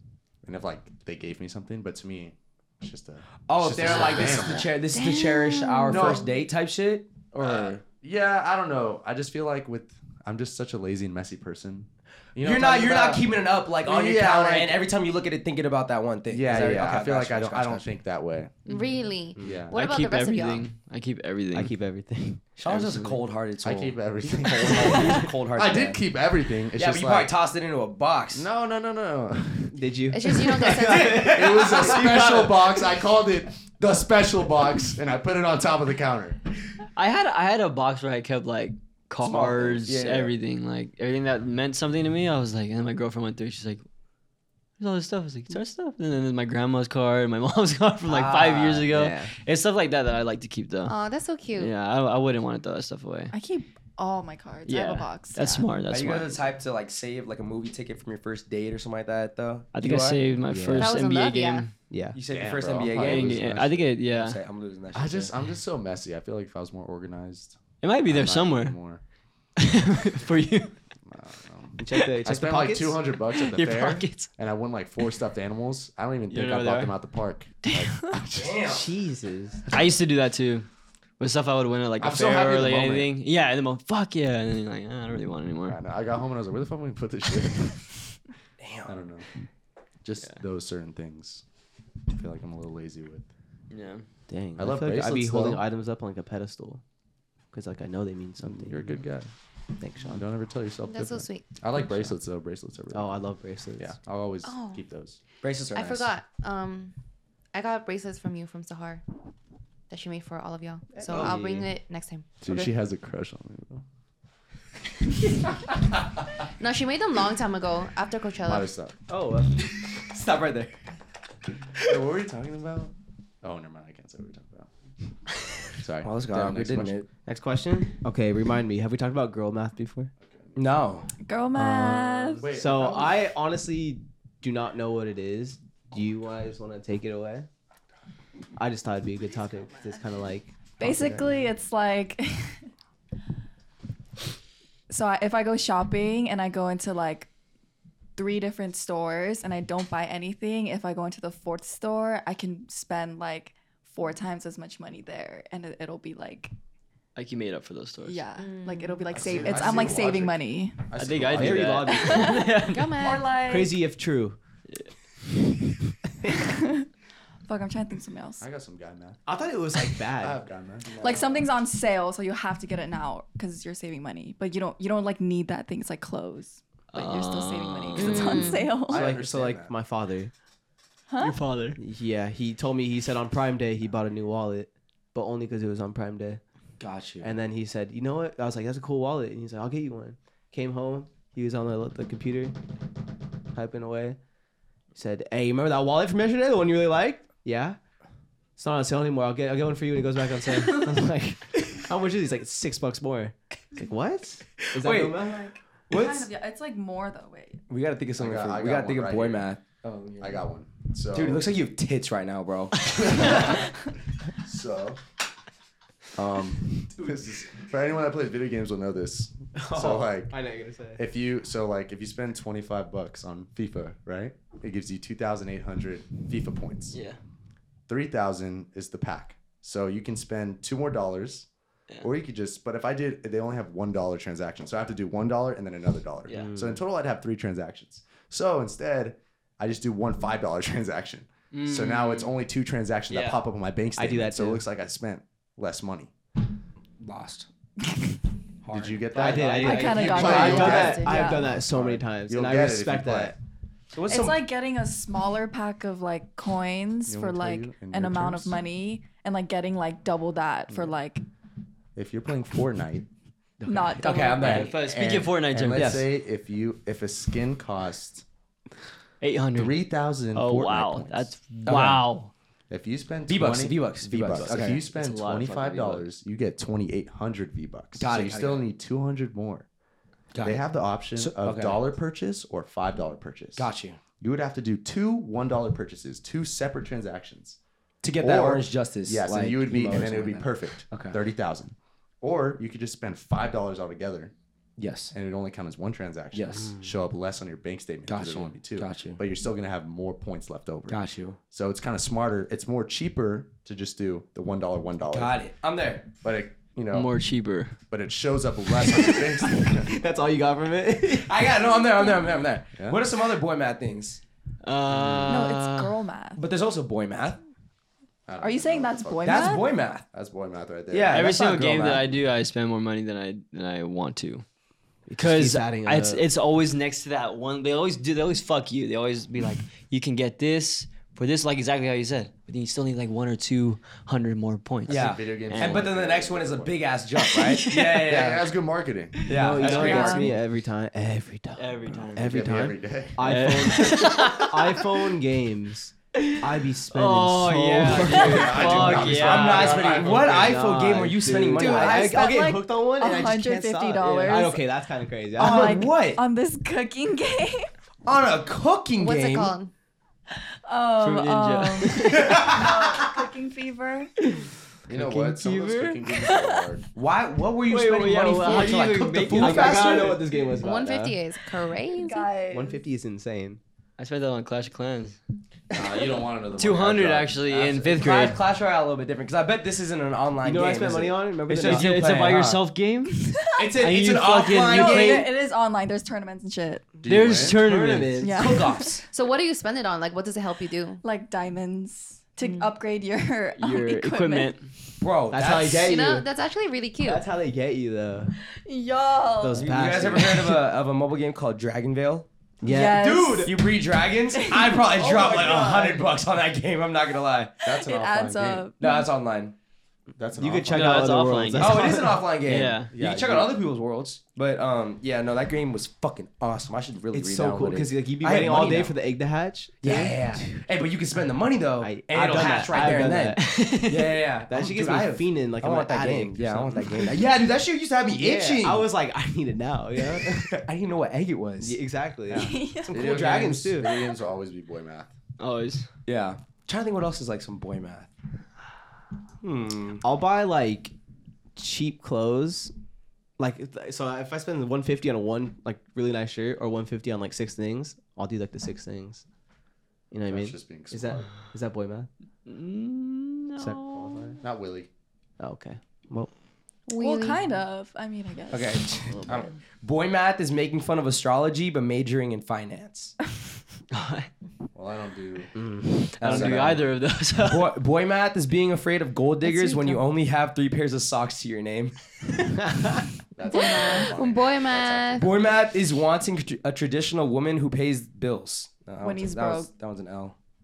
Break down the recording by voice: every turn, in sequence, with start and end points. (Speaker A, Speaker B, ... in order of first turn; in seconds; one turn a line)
Speaker A: 0.4-4.7
Speaker B: 3.5-7.8
Speaker C: 4.9-6.2
Speaker A: 5.9-6.3
Speaker A: 7.4-14.8
Speaker B: 12.4-17.9
Speaker A: 16.3-18.5
Speaker C: 18.7-20.7
Speaker A: 19.4-19.7
Speaker D: 19.7-21.7
Speaker E: 21.5-23.1
Speaker B: 22.6-26.0
Speaker A: 23.6-27.3
Speaker B: 26.8-28.4
Speaker A: 28.3-29.9
Speaker E: 29.7-32.7
Speaker C: 30.1-31.3
Speaker B: 30.9-31.1
Speaker A: 31.0-36.4
Speaker D: 37.0-43.8
Speaker B: 39.2-40.3
Speaker D: 44.8-50.9
Speaker B: 48.1-48.9
Speaker E: 48.9-49.3
Speaker C: 50.9-51.7
Speaker D: 51.6-53.3
Speaker F: 53.3-55.8
Speaker D: 54.6-56.4
Speaker B: 55.9-60.2
Speaker D: 59.7-61.7
Speaker E: 60.5-60.9
Speaker C: 60.8-61.7
Speaker E: 61.9-62.2
Speaker B: 62.1-65.3
Speaker A: 62.3-63.9
Speaker D: 62.9-64.4
Speaker A: 64.9-69.0
Speaker D: 67.8-68.8
Speaker D: 69.6-70.7
Speaker A: 71.1-78.6
Speaker E: 71.8-73.0
Speaker D: 73.3-74.3
Speaker D: 76.3-76.9
Speaker B: 78.3-78.9
Speaker E: 78.6-79.7
Speaker D: 79.7-80.7
Speaker D: 81.2-85.8
Speaker A: 82.0-83.1
Speaker A: 85.7-88.0
Speaker B: 88.6-88.9
Speaker A: 88.8-89.3
Speaker A: 90.0-91.4
Speaker A: 92.1-93.3
Speaker D: 93.7-94.0
Speaker E: 94.3-96.8
Speaker A: 94.6-95.6
Speaker E: 97.5-98.8
Speaker A: 98.4-99.3
Speaker E: 99.8-100.2
Speaker A: 100.0-103.2
Speaker C: 100.8-101.5
Speaker E: 102.9-104.0
Speaker A: 103.8-105.2
Speaker C: 104.4-104.8
Speaker B: 105.4-106.1
Speaker C: 105.7-106.9
Speaker C: 107.5-109.0
Speaker C: 109.9-112.7
Speaker E: 110.9-111.7
Speaker A: 112.4-113.8
Speaker C: 116.6-118.7
Speaker A: 118.4-119.0
Speaker E: 119.1-120.7
Speaker A: 121.8-124.7
Speaker A: 125.7-127.0
Speaker B: 126.0-127.1
Speaker E: 127.2-130.1
Speaker A: 130.2-130.7
Speaker B: 130.6-131.1
Speaker F: 131.2-132.5
Speaker E: 131.5-137.5
Speaker A: 132.4-133.2
Speaker E: 138.6-141.2
Speaker F: 140.8-142.6
Speaker A: 140.8-141.2
Speaker F: 144.9-147.3
Speaker F: 148.2-156.5
Speaker D: 157.1-158.2
Speaker F: 158.0-160.9
Speaker C: 158.4-159.1
Speaker A: 159.1-161.9
Speaker D: 160.9-163.0
Speaker E: 161.3-162.7
Speaker F: 161.9-163.8
Speaker C: 162.7-163.3
Speaker E: 163.4-164.4
Speaker F: 166.4-166.9
Speaker F: 167.4-168.4
Speaker A: 168.4-169.2
Speaker E: 169.2-170.4
Speaker A: 170.2-171.2
Speaker F: 171.0-179.1
Speaker B: 171.0-171.2
Speaker D: 176.9-178.6
Speaker C: 177.9-178.7
Speaker E: 178.8-180.3
Speaker A: 178.9-179.7
Speaker F: 181.1-181.4
Speaker D: 181.2-181.8
Speaker E: 181.8-186.4
Speaker B: 186.8-187.3
Speaker E: 187.2-192.6
Speaker E: 193.5-194.2
Speaker E: 194.9-197.8
Speaker E: 198.6-205.5
Speaker B: 204.8-205.3
Speaker F: 205.3-207.6
Speaker B: 205.9-206.3
Speaker B: 207.7-210.4
Speaker A: 208.2-209.5
Speaker A: 210.2-211.5
Speaker B: 211.1-213.5
Speaker A: 212.9-213.6
Speaker A: 214.4-215.0
Speaker A: 216.1-220.3
Speaker E: 219.6-221.0
Speaker A: 220.9-227.0
Speaker D: 226.9-227.2
Speaker A: 227.9-231.5
Speaker A: 232.0-246.1
Speaker E: 236.4-236.8
Speaker D: 241.5-242.4
Speaker D: 243.1-243.4
Speaker E: 244.0-244.6
Speaker B: 247.0-247.5
Speaker B: 248.6-250.8
Speaker A: 248.7-253.3
Speaker E: 249.1-253.3
Speaker D: 249.6-250.7
Speaker F: 249.6-251.6
Speaker B: 253.9-254.4
Speaker F: 254.1-261.2
Speaker A: 257.1-258.6
Speaker A: 260.7-261.0
Speaker A: 261.9-263.1
Speaker F: 263.6-264.6
Speaker B: 264.0-264.8
Speaker D: 264.4-266.0
Speaker A: 264.4-268.2
Speaker B: 265.7-266.0
Speaker D: 269.2-272.3
Speaker A: 269.5-271.9
Speaker B: 271.6-272.0
Speaker A: 272.7-279.6
Speaker B: 273.3-274.8
Speaker D: 274.9-276.1
Speaker B: 278.0-278.6
Speaker B: 280.3-281.8
Speaker A: 280.4-287.6
Speaker B: 283.6-284.0
Speaker B: 288.0-291.2
Speaker A: 288.2-294.3
Speaker B: 294.8-295.1
Speaker A: 295.1-301.0
Speaker B: 296.3-296.9
Speaker B: 298.1-299.2
Speaker B: 300.9-301.4
Speaker A: 301.5-305.4
Speaker B: 305.1-306.1
Speaker A: 306.2-307.1
Speaker D: 306.9-307.7
Speaker A: 307.9-309.9
Speaker E: 309.6-311.4
Speaker B: 311.1-314.2
Speaker A: 312.8-313.0
Speaker D: 314.6-316.0
Speaker F: 315.3-316.4
Speaker B: 316.4-317.4
Speaker A: 318.3-321.3
Speaker F: 318.4-319.7
Speaker B: 319.2-320.1
Speaker B: 320.9-322.1
Speaker D: 321.1-324.4
Speaker E: 325.1-326.2
Speaker D: 325.2-335.9
Speaker A: 334.9-336.8
Speaker B: 334.9-338.4
Speaker D: 337.2-338.2
Speaker A: 338.0-339.8
Speaker D: 339.2-339.8
Speaker B: 339.3-340.3
Speaker E: 339.3-349.2
Speaker F: 339.8-340.3
Speaker D: 341.6-342.4
Speaker A: 342.2-343.5
Speaker D: 343.2-344.9
Speaker D: 346.1-350.1
Speaker A: 348.1-350.6
Speaker B: 348.4-352.4
Speaker E: 349.9-355.7
Speaker F: 351.5-354.7
Speaker B: 355.4-356.2
Speaker F: 355.4-357.7
Speaker B: 358.0-359.5
Speaker C: 359.0-359.7
Speaker F: 360.3-364.1
Speaker D: 361.0-362.6
Speaker B: 362.1-362.6
Speaker D: 364.2-366.3
Speaker A: 364.9-366.8
Speaker F: 366.3-366.6
Speaker B: 366.9-370.3
Speaker D: 367.7-370.2
Speaker E: 368.5-368.8
Speaker E: 369.3-371.2
Speaker C: 370.6-372.3
Speaker F: 371.9-372.8
Speaker E: 372.5-373.6
Speaker D: 374.0-375.2
Speaker A: 375.7-378.0
Speaker D: 376.6-378.4
Speaker B: 377.9-382.6
Speaker E: 380.4-382.1
Speaker D: 381.6-385.3
Speaker F: 383.1-383.8
Speaker B: 383.6-385.3
Speaker F: 384.7-386.9
Speaker A: 387.0-387.6
Speaker D: 387.1-388.3
Speaker E: 387.6-388.5
Speaker F: 388.2-389.0
Speaker B: 388.3-389.0
Speaker C: 389.1-391.0
Speaker F: 391.0-394.6
Speaker C: 392.4-392.7
Speaker D: 393.6-394.7
Speaker B: 395.0-395.9
Speaker E: 395.3-396.2
Speaker C: 395.8-397.2
Speaker E: 397.0-398.3
Speaker F: 398.4-400.0
Speaker E: 399.4-400.6
Speaker B: 399.5-402.3
Speaker E: 402.6-403.4
Speaker F: 402.6-403.7
Speaker B: 403.0-407.6
Speaker F: 404.3-404.9
Speaker E: 405.0-406.0
Speaker A: 405.1-405.6
Speaker A: 407.6-408.7
Speaker F: 407.7-409.1
Speaker B: 408.8-409.5
Speaker A: 410.1-411.1
Speaker E: 410.4-412.3
Speaker D: 410.7-412.9
Speaker B: 411.6-419.0
Speaker A: 412.9-413.6
Speaker E: 417.1-420.6
Speaker B: 419.8-428.9
Speaker E: 421.8-423.4
Speaker D: 423.4-424.2
Speaker E: 424.5-427.2
Speaker E: 428.1-430.6
Speaker B: 430.0-431.8
Speaker E: 431.6-433.9
Speaker A: 432.3-435.1
Speaker F: 432.3-433.0
Speaker B: 432.9-433.7
Speaker D: 435.4-435.9
Speaker B: 436.1-438.1
Speaker B: 439.4-440.0
Speaker E: 440.0-440.9
Speaker E: 441.6-442.7
Speaker E: 443.4-449.2
Speaker E: 450.1-452.1
Speaker A: 450.3-451.3
Speaker D: 452.4-454.4
Speaker E: 453.6-454.4
Speaker A: 454.4-454.9
Speaker E: 455.4-456.3
Speaker C: 456.9-457.4
Speaker F: 456.9-459.1
Speaker B: 458.5-463.1
Speaker D: 463.9-464.3
Speaker A: 464.7-465.5
Speaker E: 465.5-466.1
Speaker D: 466.1-467.7
Speaker B: 466.2-466.9
Speaker A: 466.3-466.8
Speaker B: 467.4-471.9
Speaker C: 469.4-469.9
Speaker E: 472.7-472.9
Speaker A: 473.3-475.4
Speaker F: 473.4-474.1
Speaker C: 473.5-475.3
Speaker B: 475.2-480.4
Speaker F: 479.0-479.7